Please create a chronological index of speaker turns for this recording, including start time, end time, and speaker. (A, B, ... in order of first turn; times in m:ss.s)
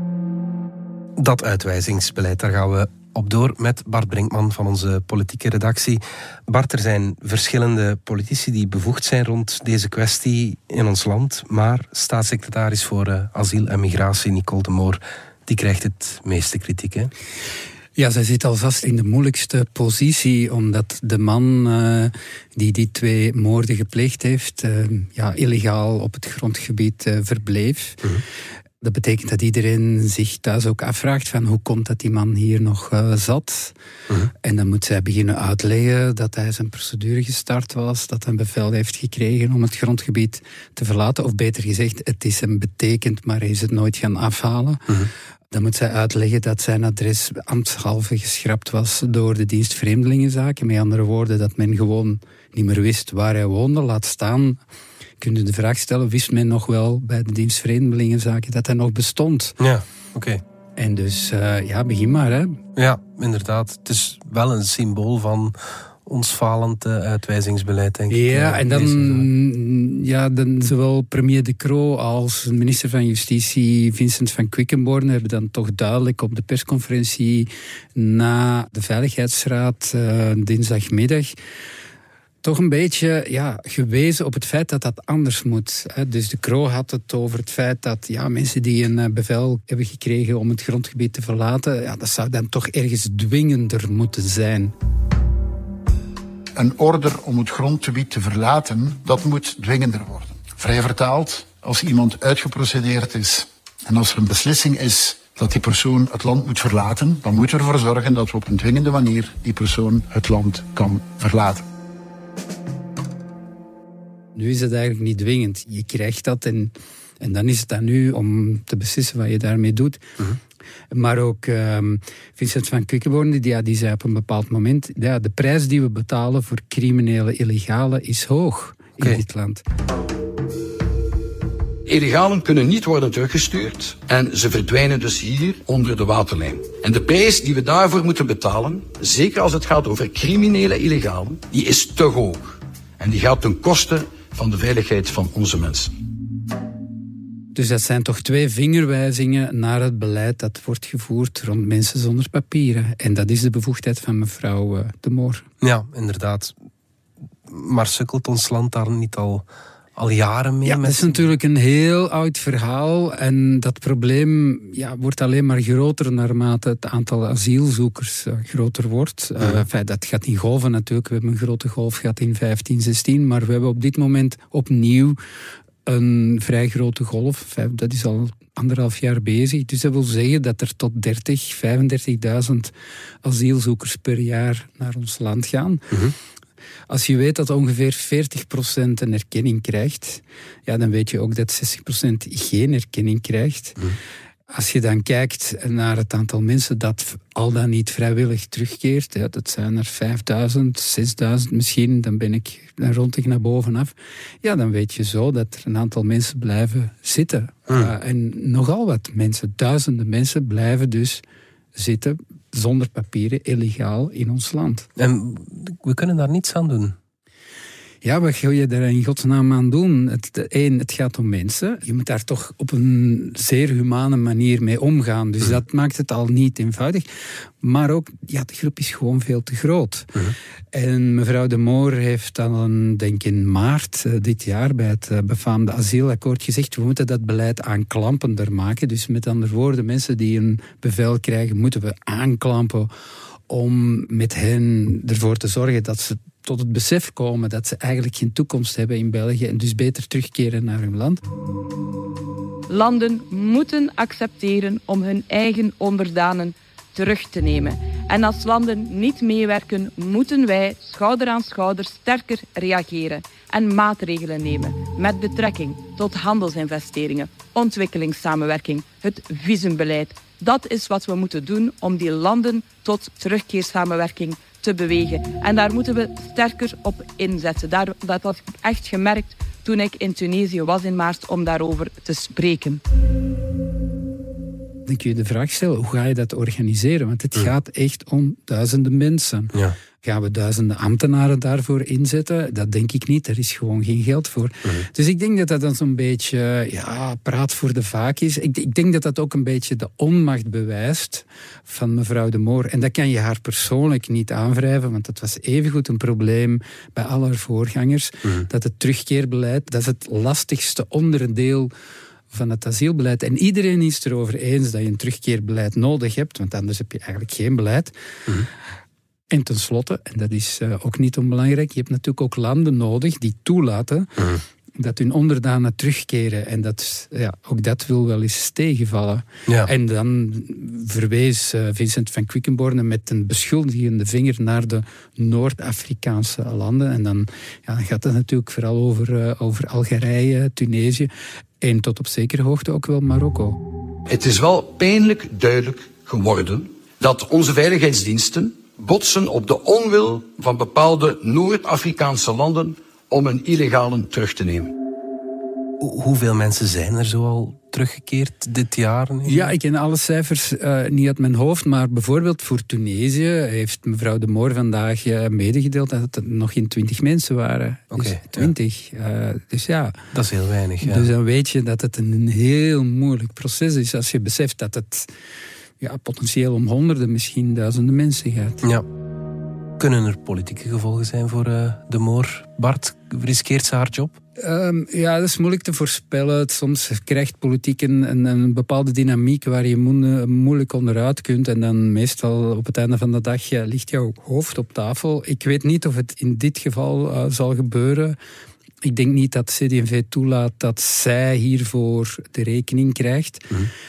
0:01.2-0:17.1 A
0:18.0-0:28.0 B
0:28.8-0:33.7 B
0:34.4-0:44.8 B
0:45.5-0:54.6 B
0:55.2-0:59.6 B
0:59.6-1:00.4 A
1:00.8-1:02.6 B
1:02.8-1:09.3 A
1:08.1-1:21.3 B
1:22.4-1:34.7 B
1:36.6-1:51.6 C
1:54.3-2:00.0 B
2:00.9-2:09.6 B
2:11.8-2:25.9 D
2:27.5-2:35.4 B
2:35.6-2:36.5 A
2:37.5-2:39.4 A
2:40.0-2:41.3 A
2:40.6-2:55.2 B
2:55.8-3:02.7 B
3:03.2-3:05.8 B
3:06.9-3:13.8 B
3:14.5-3:31.2 B
3:31.7-3:34.8 B
3:35.0-3:37.0 A
3:38.0-3:47.0 B
3:47.6-3:50.1 B
3:50.7-4:02.9 B
4:03.5-4:11.2 B
4:12.7-4:42.8 E
4:44.9-5:11.7 B
5:12.3-5:17.9 B
5:19.3-5:24.1 B
5:24.8-5:41.1 B
5:41.6-5:43.6 B
5:44.1-5:54.7 D
5:55.8-5:59.5 A
5:59.2-6:10.0 B
6:07.9-6:08.5 A
6:10.1-6:11.1 A
6:10.8-6:15.1 B
6:15.8-6:18.6 B
6:19.8-6:24.2 A
6:24.4-6:38.2 B
6:38.8-6:43.5 B